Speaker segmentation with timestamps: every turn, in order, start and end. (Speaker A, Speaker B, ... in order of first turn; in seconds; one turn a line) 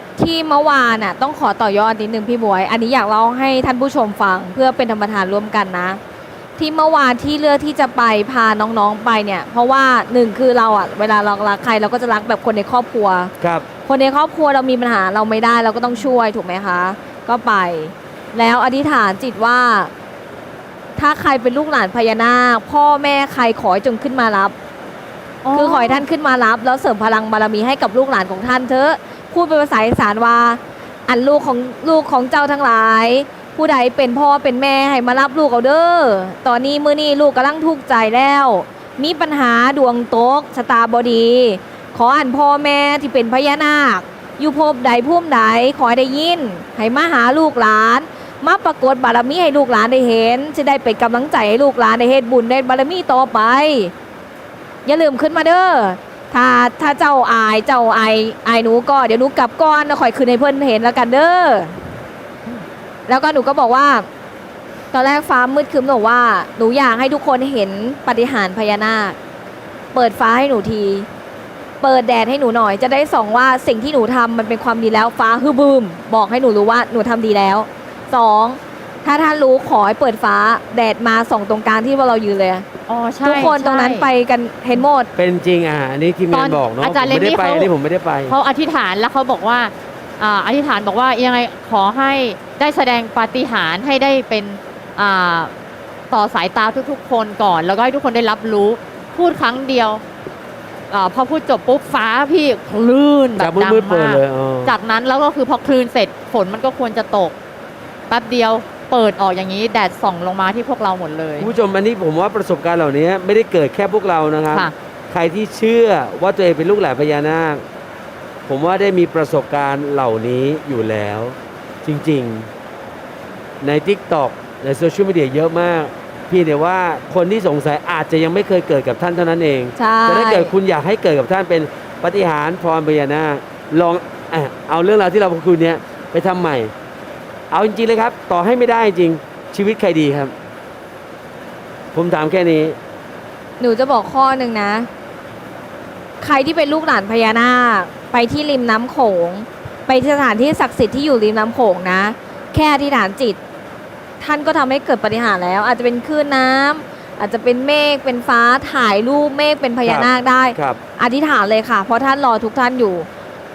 Speaker A: 0.2-6.0
Speaker A: 6.6-13.3
Speaker B: 13.4-13.7
Speaker A: 13.8-19.9
Speaker A: 21.0-24.5
Speaker C: 25.4-26.0
Speaker A: 25.5-53.9
Speaker A: 54.9-61.8
Speaker A: 63.1-64.1
Speaker A: 64.9-69.2
Speaker A: 69.9-71.1
Speaker A: 71.8-82.7
Speaker C: 82.9-84.1
Speaker A: 83.2-85.1
Speaker B: 85.2-88.3
Speaker C: 86.3-87.7
Speaker C: 88.3-95.5
Speaker C: 96.1-100.0
Speaker C: 100.9-107.3
Speaker B: 103.4-104.7
Speaker C: 108.1-111.5
Speaker B: 111.4-117.6
Speaker B: 118.5-122.5
Speaker B: 123.6-136.7
Speaker A: 129.8-130.5
Speaker B: 137.5-140.3
Speaker B: 141.9-142.8
Speaker A: 143.6-144.9
Speaker A: 146.2-153.4
Speaker A: 154.2-163.1
Speaker B: 159.8-160.8